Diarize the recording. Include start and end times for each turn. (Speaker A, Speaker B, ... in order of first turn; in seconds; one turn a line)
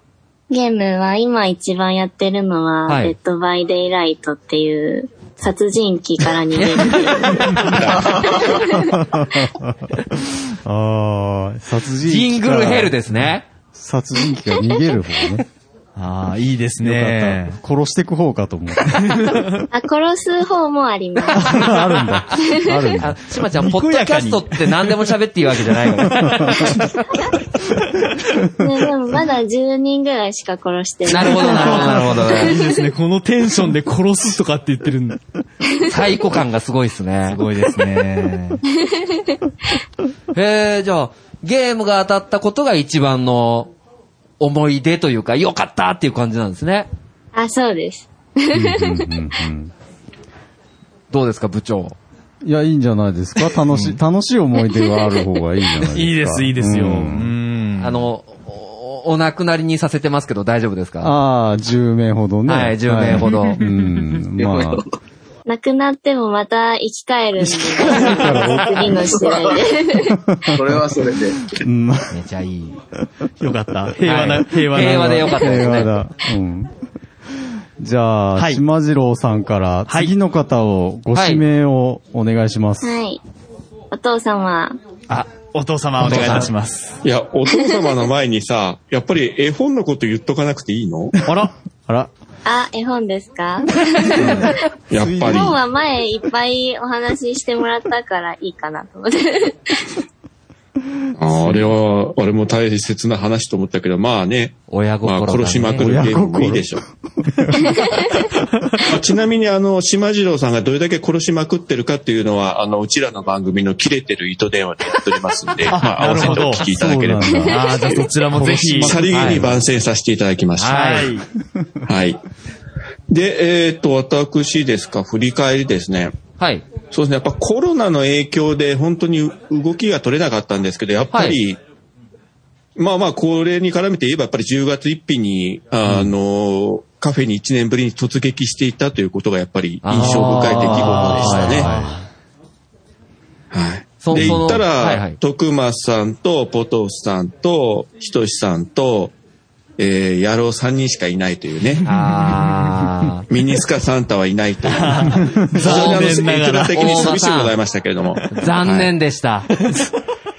Speaker A: 0.5-8.9
Speaker B: 2.9-3.1
Speaker B: 6.5-7.4
Speaker C: 7.8-8.4
Speaker D: 8.6-9.9
Speaker D: 10.6-15.4
Speaker B: 12.1-13.5
Speaker E: 16.0-17.6
Speaker D: 16.8-19.4
Speaker E: 18.9-19.6
Speaker A: 19.7-21.7
Speaker D: 21.3-23.1
Speaker A: 22.4-22.9
Speaker B: 23.0-26.6
Speaker E: 23.6-24.9
Speaker E: 26.1-26.9
Speaker E: 27.7-28.1
Speaker A: 28.6-32.7
Speaker B: 31.1-32.6
Speaker E: 31.2-35.2
Speaker B: 35.9-37.4
Speaker E: 37.2-38.6
Speaker A: 38.7-39.4
Speaker B: 40.3-43.7
Speaker B: 44.4-46.9
Speaker A: 47.4-49.2
Speaker D: 48.5-49.7
Speaker B: 51.1-52.0
Speaker D: 52.4-57.3
Speaker B: 53.7-54.0
Speaker A: 54.7-55.1
Speaker E: 55.8-58.0
Speaker B: 57.8-61.1
Speaker D: 61.0-64.8
Speaker B: 62.5-63.6
Speaker F: 64.4-64.9
Speaker A: 65.5-70.1
Speaker D: 67.4-69.1
Speaker F: 68.4-69.6
Speaker D: 70.0-70.8
Speaker F: 70.5-71.6
Speaker D: 71.5-72.2
Speaker B: 72.1-72.8
Speaker E: 73.4-75.5
Speaker B: 74.0-76.0
Speaker D: 74.9-76.7
Speaker D: 77.8-83.0
Speaker E: 78.4-78.6
Speaker B: 81.1-81.4
Speaker A: 82.8-83.2
Speaker A: 83.9-84.8
Speaker E: 85.1-87.0
Speaker B: 86.1-86.4
Speaker C: 87.0-91.1
Speaker A: 87.5-88.0
Speaker E: 91.3-91.5
Speaker A: 92.5-94.6
Speaker D: 94.1-95.5
Speaker C: 94.9-95.6
Speaker A: 95.2-99.9
Speaker C: 101.2-106.8
Speaker B: 104.7-105.9
Speaker D: 105.8-107.9
Speaker C: 108.8-121.0
Speaker E: 115.7-116.7
Speaker D: 116.1-119.6
Speaker E: 117.5-119.0
Speaker B: 119.1-119.5
Speaker B: 120.6-121.1
Speaker E: 120.6-121.2
Speaker C: 121.8-122.2
Speaker C: 123.1-126.2
Speaker B: 126.4-126.7
Speaker C: 126.8-131.6
Speaker B: 131.1-131.4
Speaker C: 132.8-141.7
Speaker B: 139.8-141.7
Speaker D: 140.0-141.9
Speaker E: 140.9-142.0
Speaker C: 143.5-149.1
Speaker B: 144.0-145.2
Speaker C: 149.8-151.8
Speaker E: 151.8-152.7
Speaker B: 151.8-153.2
Speaker C: 153.3-158.9
Speaker E: 154.7-157.1
Speaker B: 155.6-156.2
Speaker B: 156.7-157.5
Speaker B: 158.3-159.5
Speaker E: 159.6-159.9